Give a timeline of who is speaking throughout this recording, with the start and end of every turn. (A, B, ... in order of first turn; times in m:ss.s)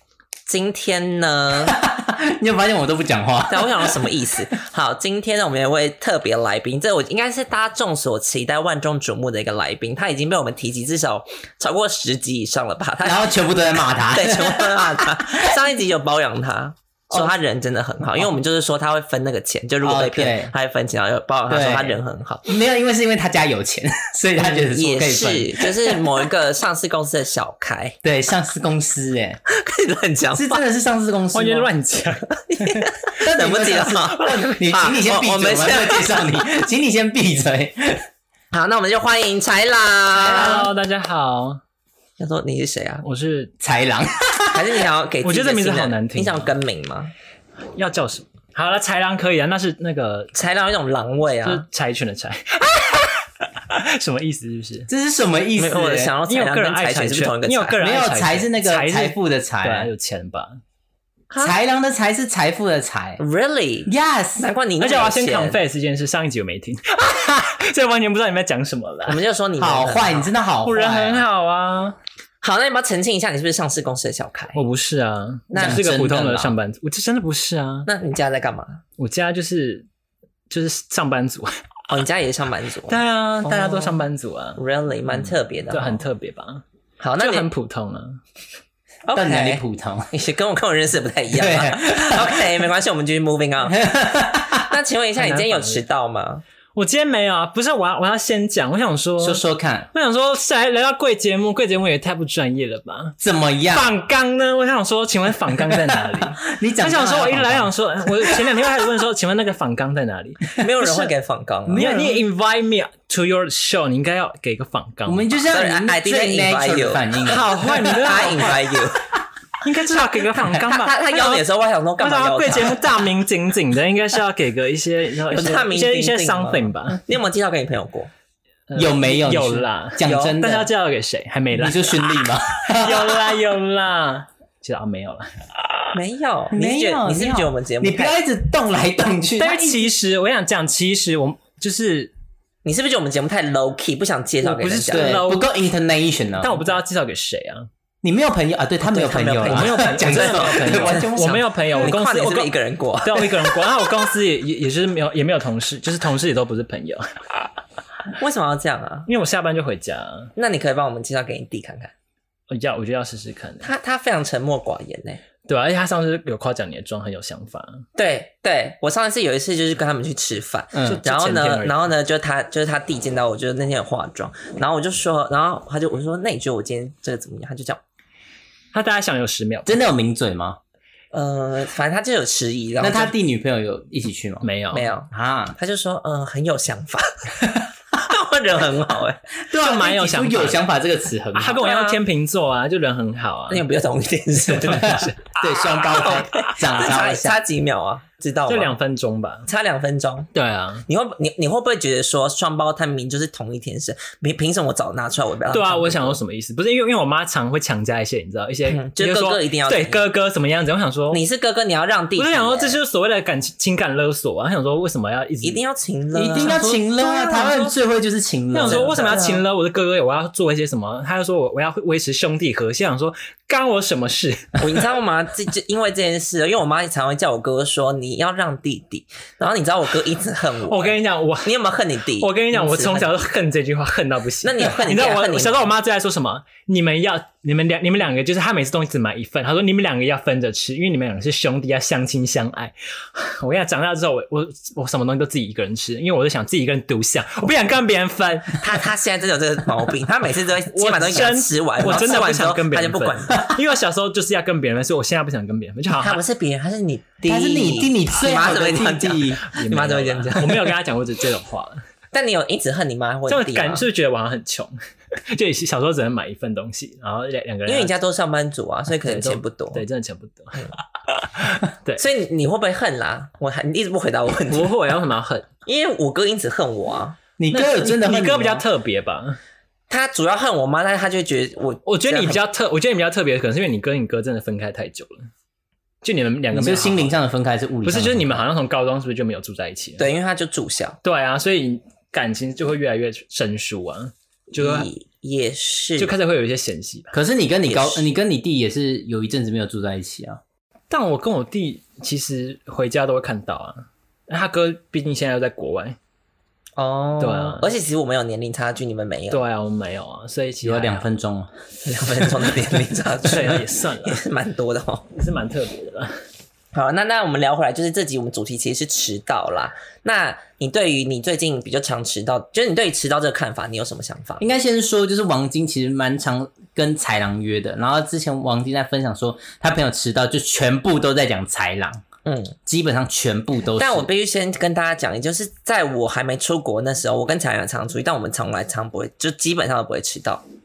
0:00.5-0:01.8 A
0:01.7-0:04.1 B
0:03.5-0:13.4 A
0:13.0-0:15.5 B
0:14.1-0:22.5 A
0:19.8-0:20.5 B
0:21.5-0:26.2 B
0:24.4-0:28.0 A
0:28.0-0:29.4 B
0:29.5-0:30.6 A
0:30.4-0:31.7 B
0:31.3-0:32.9 C
0:32.5-0:36.3 A
0:33.2-0:38.1 B
0:38.5-0:40.7 A
0:40.2-0:41.6 C
0:40.3-0:40.6 B
0:42.2-0:43.0 A
0:43.0-0:43.5 C
0:43.6-0:44.8 B
0:44.5-0:47.1 A
0:45.2-0:46.5 C
0:47.8-0:50.3 C
0:50.4-0:51.6 A
0:51.4-0:54.9 C
0:54.9-0:56.1 B
0:55.6-0:57.8 A
0:56.3-1:00.6 C
0:57.8-0:59.9 B
1:01.3-1:01.6 A
1:01.4-1:03.2 B
1:03.2-1:05.6 A
1:03.9-1:04.5 B
1:04.8-1:09.2 C
1:09.1-1:10.3 A
1:09.6-1:11.2 B
1:10.6-1:12.0 C
1:12.4-1:14.6 A
1:14.6-1:17.9 C
1:15.5-1:15.8 A
1:15.6-1:16.6 B
1:17.9-1:18.8 A
1:19.0-1:19.9 C
1:20.5-1:21.5 C
1:21.9-1:24.0 A
1:22.9-1:24.6 C
1:24.6-1:26.0 A
1:25.1-1:26.6 C
1:27.0-1:27.5 A
1:27.2-1:28.2 C
1:29.1-1:33.9 A
1:29.2-1:30.1 B
1:31.3-1:32.6 B
1:33.7-1:34.7 B
1:34.5-1:36.4 A
1:35.2-1:35.8 C
1:36.8-1:43.2 C
1:39.2-1:39.9 B
1:43.2-1:43.9 B
1:43.7-1:51.1 C
1:45.7-1:48.5 B
1:50.6-1:51.9 A
1:51.7-1:52.2 B
1:51.8-1:55.3 C
1:55.1-1:58.2 B
1:55.5-1:59.0 A
1:57.2-1:58.7 C
1:59.6-2:01.4 C
2:00.6-2:02.8 A
2:02.0-2:07.0 C
2:05.3-2:08.1 A
2:08.7-2:15.3 C
2:08.8-2:10.7 B
2:10.0-2:10.4 A
2:11.5-2:13.3 B
2:15.9-2:18.2 A
2:16.5-2:19.9 B
2:19.4-2:22.1 C
2:22.6-2:25.2 A
2:24.4-2:25.5 C
2:24.9-2:26.8 B
2:26.4-2:27.7 C
2:28.0-2:31.4 B
2:28.8-2:33.6 A
2:29.4-2:32.5 C
2:33.0-2:37.1 C
2:38.1-2:39.1 A
2:39.1-2:40.3 C
2:40.4-2:41.9 A
2:42.5-2:43.7 C
2:43.6-2:45.2 A
2:45.5-2:47.8 C
2:48.0-2:57.8 A
2:50.7-2:51.0 B
2:50.8-2:51.9 C
2:58.7-2:59.8 C
2:59.7-3:00.6 B
3:01.1-3:03.1 A
3:02.8-3:04.5 B
3:04.4-3:04.9 C
3:04.7-3:09.2 A
3:05.1-3:05.6 B
3:09.4-3:11.6 B
3:09.6-3:10.6 C
3:11.4-3:13.6 C
3:11.5-3:12.0 A
3:13.5-3:18.8 A
3:14.6-3:17.4 B
3:14.7-3:15.1 C
3:18.5-3:19.5 C
3:19.5-3:20.3 A
3:20.3-3:20.8 C
3:20.9-3:26.2 A
3:25.5-3:31.2 C
3:28.7-3:30.0 A
3:31.1-3:32.8 A
3:32.2-3:35.6 C
3:35.4-3:36.6 A
3:36.1-3:39.4 B
3:36.4-3:37.7 C
3:38.5-3:44.6 C
3:38.6-3:39.3 A
3:44.6-3:53.1 A
3:50.6-3:51.5 C
3:52.2-4:08.6 C
3:54.4-3:55.7 A
4:08.6-4:13.6 A
4:10.7-4:16.2 C
4:15.9-4:20.7 A
4:17.2-4:19.4 B
4:19.4-4:21.8 C
4:22.1-4:23.8 A
4:23.3-4:24.7 C
4:25.3-4:27.9 C
4:27.7-4:29.8 A
4:29.0-4:32.0 C
4:32.0-4:34.7 A
4:34.5-4:35.5 C
4:35.7-4:37.2 A
4:37.4-4:38.7 B
4:37.5-4:39.4 C
4:39.9-4:42.4 A
4:41.9-4:45.3 C
4:46.0-4:47.2 C
4:46.5-4:48.4 B
4:47.8-4:50.0 C
4:50.0-4:51.0 A
4:51.0-4:54.9 C
4:54.6-4:56.1 A
4:56.0-4:57.1 C
4:57.1-5:00.4 B
4:57.7-4:58.1 A
5:00.9-5:06.0 C
5:06.8-5:09.4 A
5:07.2-5:07.7 C
5:09.3-5:11.1 C
5:10.6-5:11.5 B
5:11.8-5:15.1 A
5:13.2-5:14.2 C
5:15.1-5:16.2 C
5:16.7-5:24.5 A
5:24.4-5:32.0 B
5:32.2-5:32.6 A
5:32.7-5:34.1 B
5:33.8-5:40.4 A